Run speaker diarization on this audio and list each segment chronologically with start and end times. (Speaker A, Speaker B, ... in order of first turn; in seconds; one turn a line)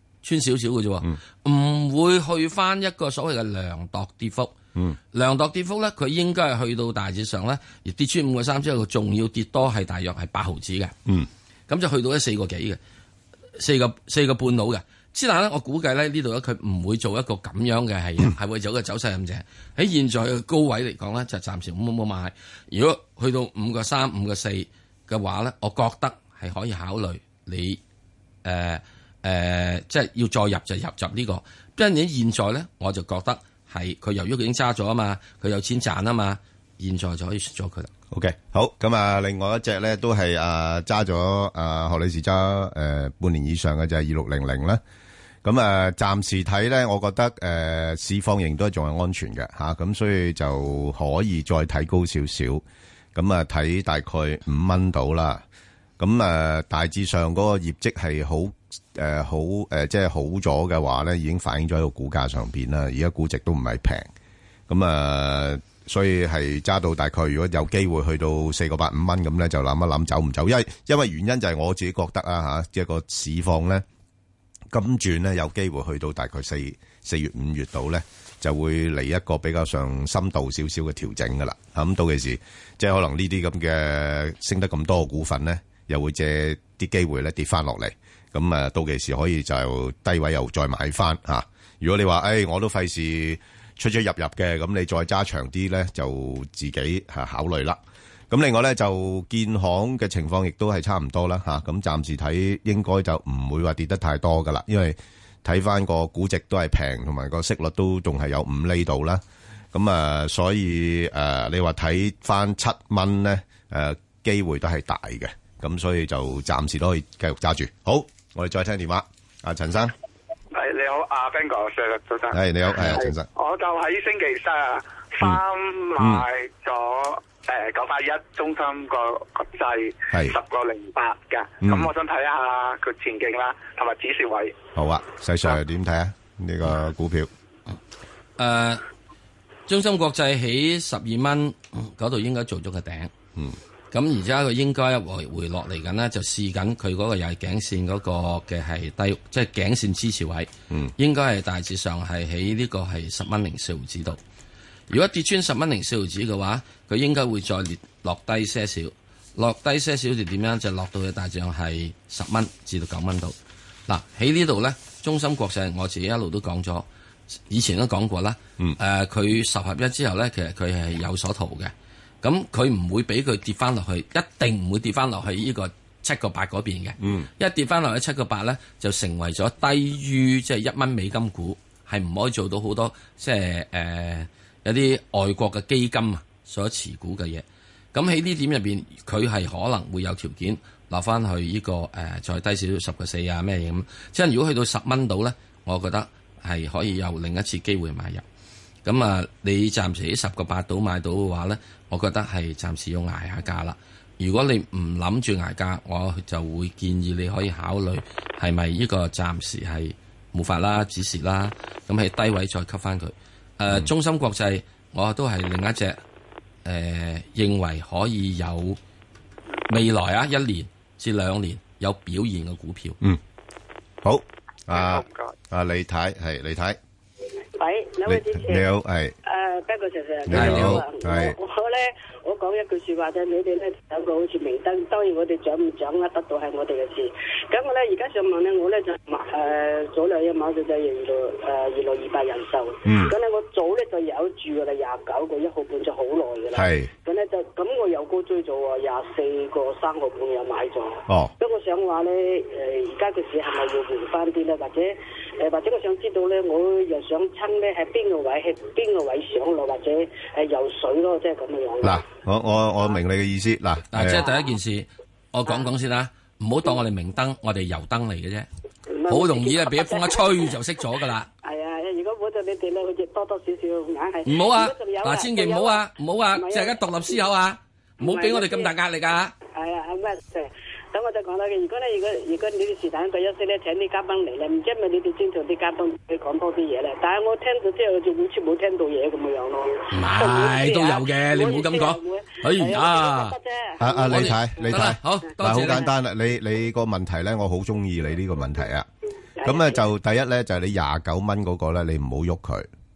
Speaker A: 0.2-4.5
Speaker A: 5.1-10.9
Speaker A: 11.7-12.8
Speaker A: 13.6-27.8
Speaker A: 28.4-37.9
Speaker B: 38.1-44.8
Speaker B: 45.4-52.6
Speaker B: 53.1-55.4
Speaker B: 56.0-64.1
Speaker B: 64.7-73.8
Speaker B: 74.7-109.2
Speaker B: 109.7-119.9
Speaker C: 120.5-134.6
Speaker B: 122.3-123.3
Speaker B: 126.0-126.2
Speaker B: 131.6-131.9
Speaker B: 134.8-137.3
Speaker A: 138.4-138.8
Speaker A: 139.7-143.1
Speaker A: 143.9-154.2
Speaker A: 154.9-163.3
Speaker A: 163.9-166.9
Speaker A: 167.5-198.2
Speaker B: 177.0-177.3
Speaker A: 198.8-216.0
Speaker A: 216.7-218.8
Speaker A: 219.7-223.0
Speaker B: 224.0-226.8
Speaker C: 224.7-225.3
Speaker D: 227.6-228.7
Speaker B: 228.1-229.2
Speaker D: 229.2-262.0
Speaker B: 230.3-231.4
Speaker A: 230.3-230.8
Speaker B: 242.8-243.1
Speaker B: 246.5-246.9
Speaker B: 261.8-264.2
Speaker A: 263.9-268.5
Speaker D: 268.9-270.4
Speaker A: 269.1-271.3
Speaker D: 271.4-275.8
Speaker A: 274.2-279.3
Speaker D: 276.3-277.2
Speaker D: 278.0-278.7
Speaker D: 279.6-294.8
Speaker A: 289.9-293.4
Speaker B: 293.8-298.9
Speaker A: 294.1-295.9
Speaker D: 299.4-299.9
Speaker B: 299.4-302.7